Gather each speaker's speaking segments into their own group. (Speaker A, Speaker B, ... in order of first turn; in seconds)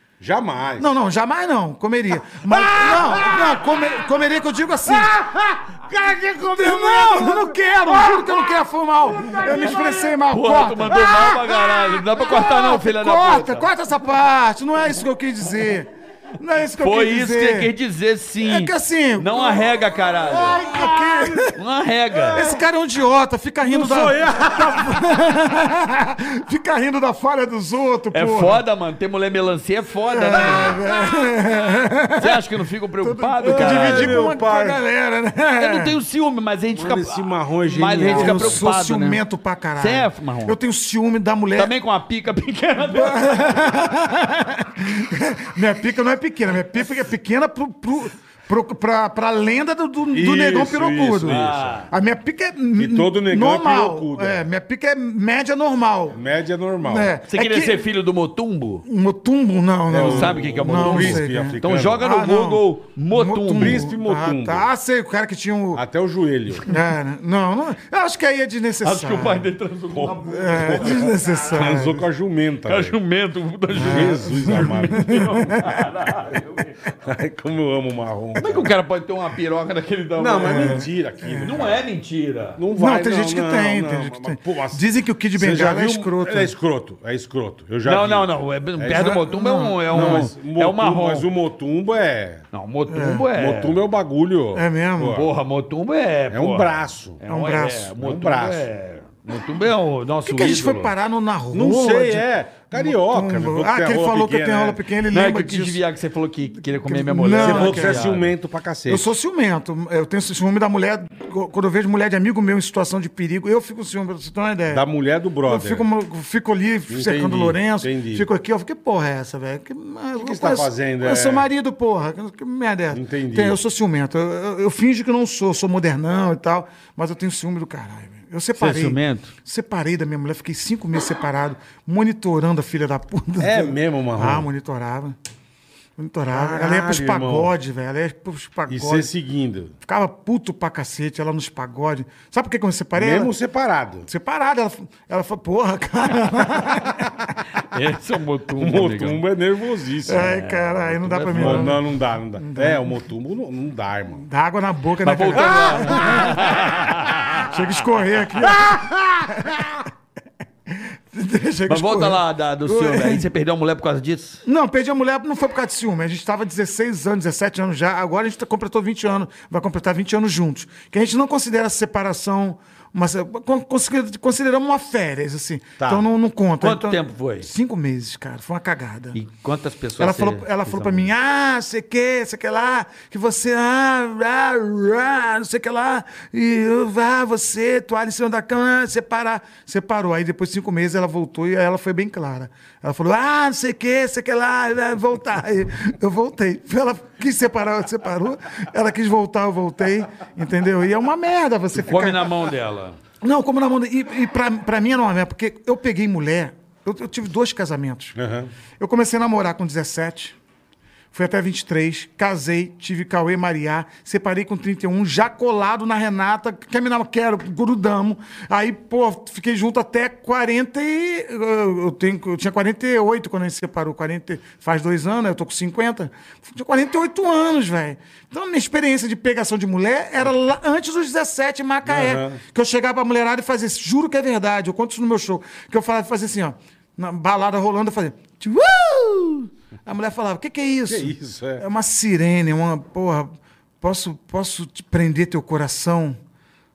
Speaker A: 0.2-0.9, 2.3-4.0, 4.8-8.5, 9.2-10.1, 20.3-21.4, 23.6-25.2, 33.4-34.8, 36.7-38.6, 50.1-51.8, 52.8-54.5, 56.1-57.1, 59.9-62.1, 63.5-64.7, 65.7-66.7, 69.9-73.0, 73.7-75.5, 77.0-78.7, 80.2-81.8, 82.6-84.8, 85.4-89.2, 89.9-92.4, 93.3-95.3, 96.3-97.2, 98.0-98.7, 101.5-104.8, 107.4-109.1, 114.7-115.9, 116.9-118.2, 120.2-121.5, 122.9-123.6, 133.4-134.5, 136.3-137.5, 138.7-139.7, 142.9-144.1, 148.6-150.4, 151.3-154.2, 155.5-156.3, 158.4-159.8, 175.8-176.1, 208.2-208.5, 231.8-232.4, 240.9-241.6
Speaker B: 0.8-5.1, 6.5-17.7, 18.4-19.8, 20.4-21.6, 22.3-28.6, 30.1-32.5, 33.0-36.0, 38.0-41.7, 42.9-56.2, 56.8-57.8, 58.9-65.8, 66.7-69.5, 70.2-72.0, 73.7-75.8, 80.4-81.5, 82.7-86.5, 89.0-90.3, 92.9-93.3, 94.5-95.2, 97.3-97.9, 100.2-105.8, 106.8-108.1, 108.9-114.8, 115.4-135.1, 136.0-139.1, 139.8-143.3, 144.1-147.3, 150.1-151.8, 152.4-152.8, 154.2-159.7, 161.1-163.3, 164.4-179.2, 180.0-202.5, 203.2-208.2, 208.8-210.3, 211.1-246.2
Speaker C: 9.4-9.7, 10.3-13.7, 16.8-20.7, 21.5-22.4, 28.1-30.8, 32.2-34.1, 35.6-39.2, 39.8-40.6, 41.5-43.6, 51.2-51.9, 57.3-58.8, 60.0-63.8, 68.8-71.4, 72.6-76.8, 78.3-80.8, 81.4-82.6, 87.8-91.3, 92.5-93.8, 95.1-100.9, 105.1-108.3, 128.6-129.3, 147.6-149.2, 150.1-151.7, 155.0-157.8, 161.7-164.4, 176.6-177.5, 179.1-181.1, 201.8-203.0